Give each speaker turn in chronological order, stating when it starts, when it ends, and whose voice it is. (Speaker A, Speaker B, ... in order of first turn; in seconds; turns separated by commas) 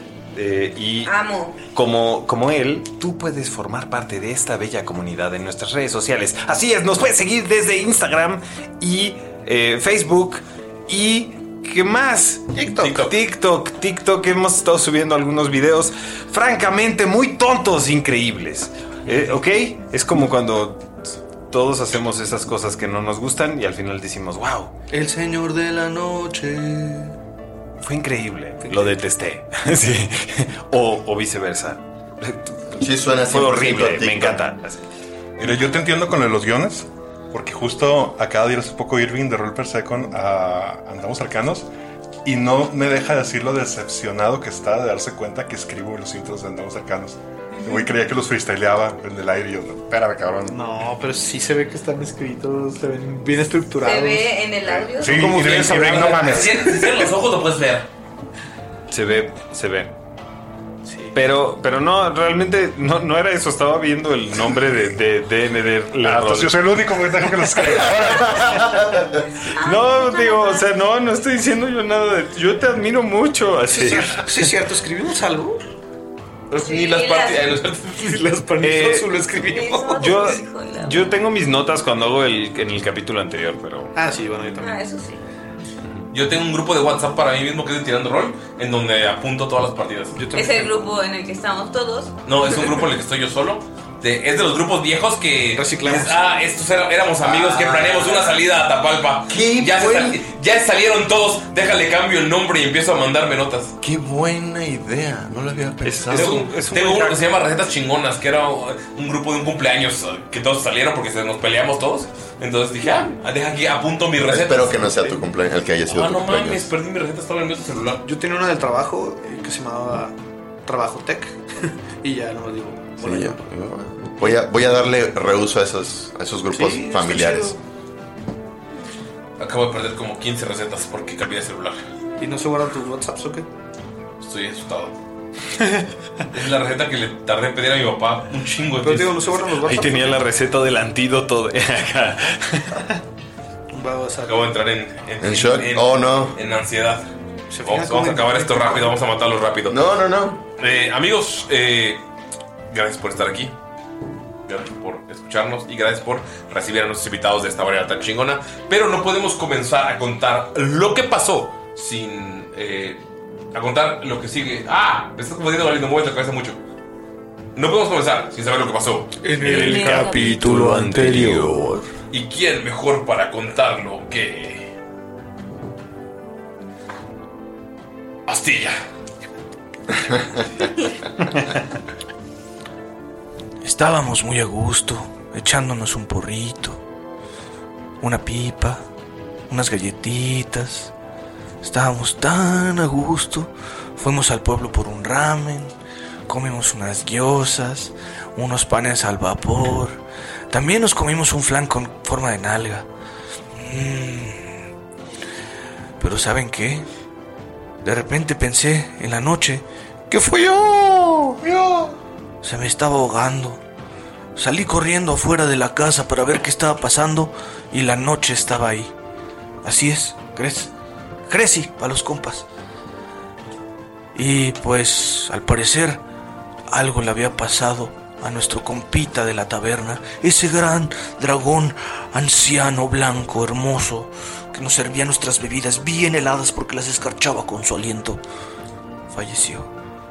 Speaker A: 0.3-1.1, Speaker B: 1.1-1.6, Speaker A: 1.7-20.9, Speaker C: 12.8-13.1, Speaker A: 21.5-24.7, Speaker D: 24.9-27.1, Speaker A: 27.8-32.6, Speaker E: 28.6-28.9, Speaker F: 32.7-34.4, Speaker A: 33.3-34.8, Speaker G: 35.4-41.7, Speaker G: 42.2-50.7, Speaker E: 50.5-54.3, Speaker B: 53.8-55.7, Speaker G: 54.6-56.8, Speaker E: 55.1-57.1, Speaker C: 55.2-57.9, Speaker A: 58.9-59.9, Speaker E: 60.9-61.1, Speaker A: 61.1-66.8, Speaker G: 66.0-68.4, Speaker A: 67.5-68.4, Speaker F: 68.7-69.0, Speaker B: 69.5-70.7, Speaker A: 69.6-74.5, Speaker E: 73.7-75.6, Speaker C: 76.5-77.9, Speaker B: 76.5-77.6, Speaker E: 77.9-80.4, Speaker A: 78.6-79.2, Speaker B: 79.5-81.2, Speaker A: 79.9-83.9, Speaker E: 84.0-84.8, Speaker B: 84.6-85.2, Speaker C: 86.1-90.3, Speaker E: 90.2-90.8, Speaker B: 90.3-92.6, Speaker C: 92.3-103.8, Speaker E: 95.5-96.2, Speaker E: 97.2-98.2, Speaker F: 99.3-100.3, Speaker F: 103.8-106.4, Speaker A: 105.8-107.2, Speaker C: 106.1-115.0, Speaker F: 114.3-116.7, Speaker C: 115.9-118.0, Speaker E: 118.0-123.4, Speaker F: 123.0-127.6, Speaker D: 126.7-127.4, Speaker E: 126.7-127.4, Speaker C: 129.4-131.8, Speaker E: 132.2-133.5, Speaker C: 134.2-135.0, Speaker C: 136.3-139.3, Speaker E: 138.8-140.2, Speaker A: 139.5-142.8, Speaker E: 143.7-144.3, Speaker C: 144.2-147.1, Speaker F: 145.2-146.3, Speaker E: 147.5-148.9, Speaker C: 147.7-149.8, Speaker F: 149.7-150.4, Speaker C: 150.6-152.0, Speaker C: 152.7-153.6, Speaker C: 154.5-166.6, Speaker C: 167.6-169.3, Speaker E: 169.2-171.5, Speaker A: 169.4-171.7, Speaker D: 169.6-171.5, Speaker C: 172.1-174.7, Speaker C: 178.3-178.8, Speaker D: 183.6-186.8, Speaker D: 188.0-188.8, Speaker D: 189.5-190.9, Speaker D: 191.6-195.7, Speaker D: 196.3-200.0, Speaker D: 200.5-202.9, Speaker D: 203.6-204.6, Speaker D: 206.0-206.9, Speaker D: 207.8-211.4, Speaker D: 212.4-213.6, Speaker D: 214.4-218.9, Speaker D: 219.6-220.7, Speaker D: 221.3-222.5, Speaker D: 224.2-226.0, Speaker D: 226.7-238.2, Speaker D: 239.1-239.7